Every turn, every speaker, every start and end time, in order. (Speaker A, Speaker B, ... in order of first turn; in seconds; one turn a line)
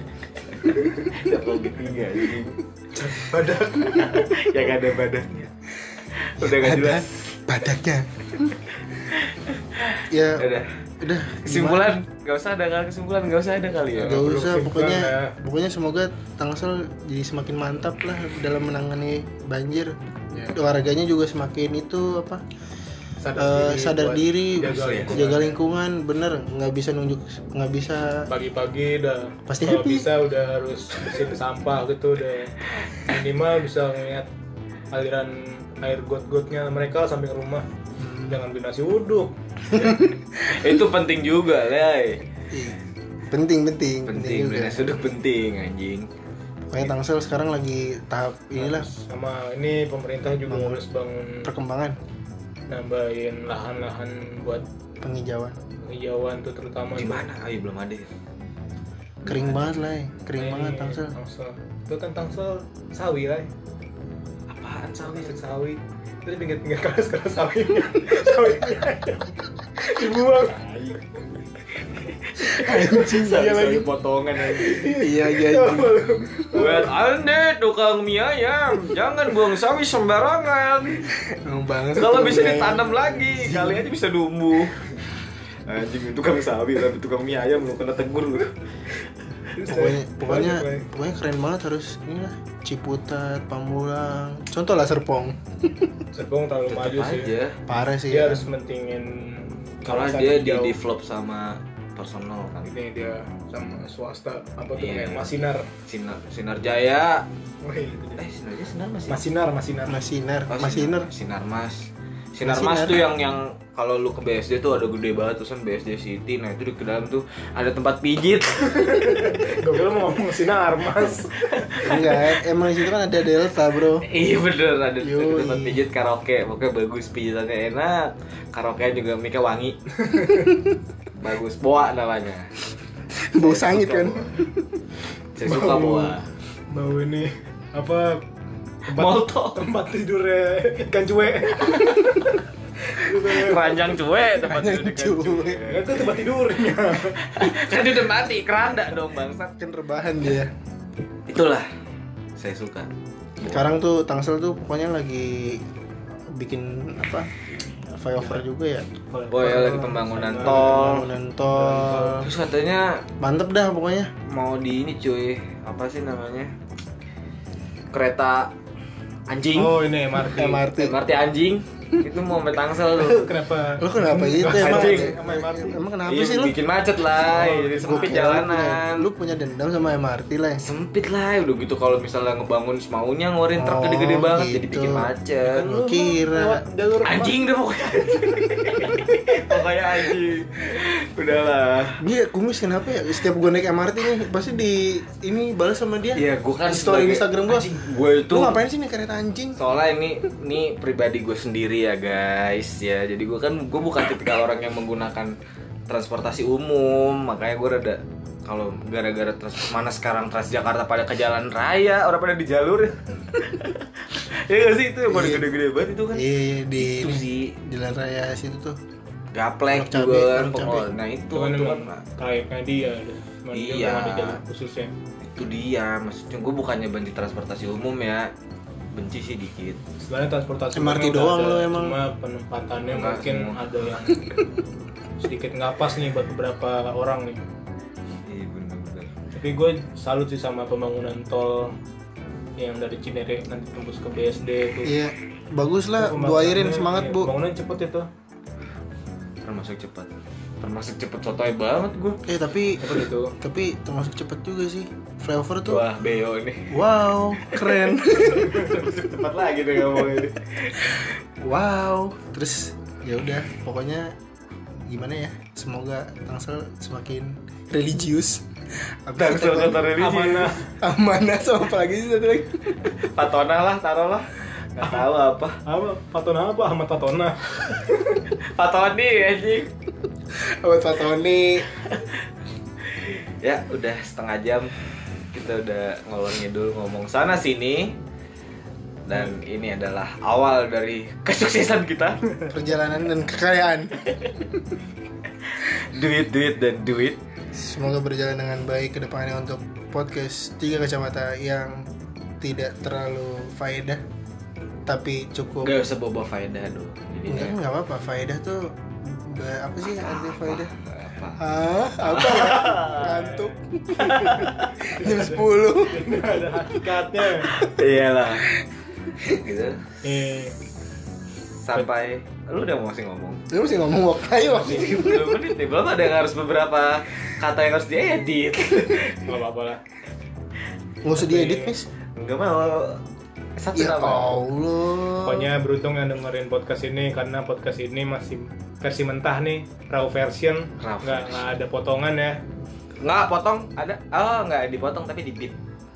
Speaker A: 0.6-2.6
Speaker B: 2.9-4.3
Speaker A: 4.0-5.5
Speaker A: 6.2-7.3
Speaker C: 6.4-8.6
Speaker A: 8.9-10.7
Speaker C: 10.1-12.0
Speaker A: 11.4-14.3
Speaker B: 13.9-15.3
Speaker C: 14.0-22.4
Speaker B: 23.2-25.6
Speaker C: 23.4-28.3
Speaker A: 24.6-25.3
Speaker B: 28.3-34.3
Speaker C: 29.5-30.1
Speaker B: 34.9-37.7
Speaker C: 38.0-38.4
Speaker B: 38.3-40.2
Speaker C: 39.7-40.2
Speaker A: 40.5-42.2
Speaker C: 42.5-42.8
Speaker C: 43.3-45.0
Speaker A: 44.1-46.1
Speaker C: 46.7-48.9
Speaker B: 48.6-51.5
Speaker C: 50.5-50.8
Speaker C: 51.4-52.0
Speaker B: 52.7-54.7
Speaker C: 55.0-55.6
Speaker B: 55.8-57.3
Speaker A: 56.9-58.1
Speaker A: 59.2-59.9
Speaker C: 59.3-61.1
Speaker B: 60.4-63.5
Speaker A: 64.5-65.4
Speaker B: 65.0-70.7
Speaker A: 70.5-71.0
Speaker A: 71.9-75.0
Speaker C: 72.4-73.9
Speaker B: 74.6-76.9
Speaker C: 74.8-76.7
Speaker A: 76.5-81.1
Speaker C: 81.2-83.9
Speaker A: 81.9-85.0
Speaker A: 85.7-88.5
Speaker B: 89.5-90.9
Speaker C: 89.7-96.0
Speaker B: 96.1-97.3
Speaker A: 96.7-97.6
Speaker C: 97.7-98.5
Speaker B: 98.1-100.8
Speaker A: 99.9-102.7
Speaker B: 102.6-105.7
Speaker A: 104.8-105.3
Speaker A: 105.9-107.3
Speaker B: 107.6-108.2
Speaker A: 108.2-109.2
Speaker B: 109.1-110.0
Speaker C: 109.9-111.1
Speaker A: 110.5-119.6
Speaker C: 112.4-113.1
Speaker B: 118.8-122.4
Speaker C: 121.8-124.1
Speaker A: 124.0-129.8
Speaker C: 125.0-125.8
Speaker B: 130.1-130.5
Speaker A: 131.1-132.5
Speaker C: 133.1-134.8
Speaker A: 133.4-134.4
Speaker A: 135.3-136.3
Speaker B: 135.4-136.2
Speaker B: 136.7-138.2
Speaker A: 138.9-139.6
Speaker B: 138.9-143.9
Speaker A: 143.0-146.2
Speaker C: 144.4-145.7
Speaker B: 145.7-147.4
Speaker A: 147.1-149.6
Speaker C: 149.6-150.5
Speaker A: 151.3-151.7
Speaker A: 152.4-153.7
Speaker C: 153.4-155.6
Speaker C: 156.3-158.9
Speaker B: 159.1-162.3
Speaker A: 159.3-161.1
Speaker C: 160.4-162.3
Speaker A: 162.2-163.0
Speaker C: 163.2-164.1
Speaker A: 164.3-166.5
Speaker A: 167.9-168.5
Speaker A: 169.3-169.8
Speaker B: 169.6-170.7
Speaker C: 170.2-171.0
Speaker A: 170.8-173.3
Speaker B: 172.8-175.8
Speaker C: 173.8-176.6
Speaker A: 174.5-175.2
Speaker A: 176.1-179.1
Speaker B: 177.2-178.3
Speaker C: 177.8-180.7
Speaker A: 180.6-185.7
Speaker C: 183.5-185.1
Speaker B: 185.4-187.4
Speaker C: 185.6-186.7
Speaker A: 187.0-192.0
Speaker C: 192.0-199.6
Speaker A: 196.2-198.6
Speaker A: 199.6-205.3
Speaker A: 205.9-217.6
Speaker C: 215.1-215.5
Speaker C: 216.1-218.8
Speaker A: 219.3-222.0
Speaker C: 219.7-220.9
Speaker B: 221.3-224.9
Speaker A: 223.5-224.4
Speaker A: 225.3-228.3
Speaker A: 228.9-229.8
Speaker B: 230.0-234.4
Speaker C: 230.7-232.0
Speaker A: 232.9-233.6
Speaker B: 235.2-237.4
Speaker A: 238.2-239.1
Speaker B: 239.3-241.8
Speaker B: 242.6-244.9
Speaker C: 244.8-247.3
Speaker B: 246.0-248.1
Speaker A: 249.4-252.2
Speaker C: 252.3-255.9
Speaker B: 252.8-253.3
Speaker A: 255.7-261.1
Speaker C: 256.7-258.6
Speaker B: 258.5-258.8
Speaker C: 261.4-264.1
Speaker C: 264.9-269.9
Speaker A: 269.2-270.6
Speaker B: 269.9-270.7
Speaker C: 270.8-272.6
Speaker A: 272.9-275.6
Speaker B: 275.6-278.2
Speaker A: 278.4-279.7
Speaker C: 280.3-281.7
Speaker A: 281.8-282.1
Speaker A: 282.9-284.7
Speaker A: 285.3-288.0
Speaker A: 289.1-292.2
Speaker C: 292.5-294.1
Speaker A: 295.5-297.2
Speaker C: 297.5-301.9
Speaker C: 302.4-304.0
Speaker C: 304.9-305.7
Speaker A: 305.6-307.6
Speaker C: 307.3-310.7
Speaker A: 310.0-311.4
Speaker C: 311.4-316.2
Speaker A: 312.0-313.3
Speaker B: 313.0-317.6
Speaker A: 314.0-314.8
Speaker A: 317.4-318.5
Speaker C: 318.4-319.4
Speaker A: 319.3-319.9
Speaker B: 320.0-320.6
Speaker A: 321.5-323.4
Speaker C: 323.5-325.5
Speaker A: 324.6-329.3
Speaker B: 329.2-329.8
Speaker C: 331.0-331.9
Speaker B: 331.1-331.7
Speaker A: 332.2-333.0
Speaker A: 333.6-334.4
Speaker C: 333.7-335.6
Speaker B: 335.2-342.4
Speaker A: 340.8-341.4
Speaker A: 343.0-345.6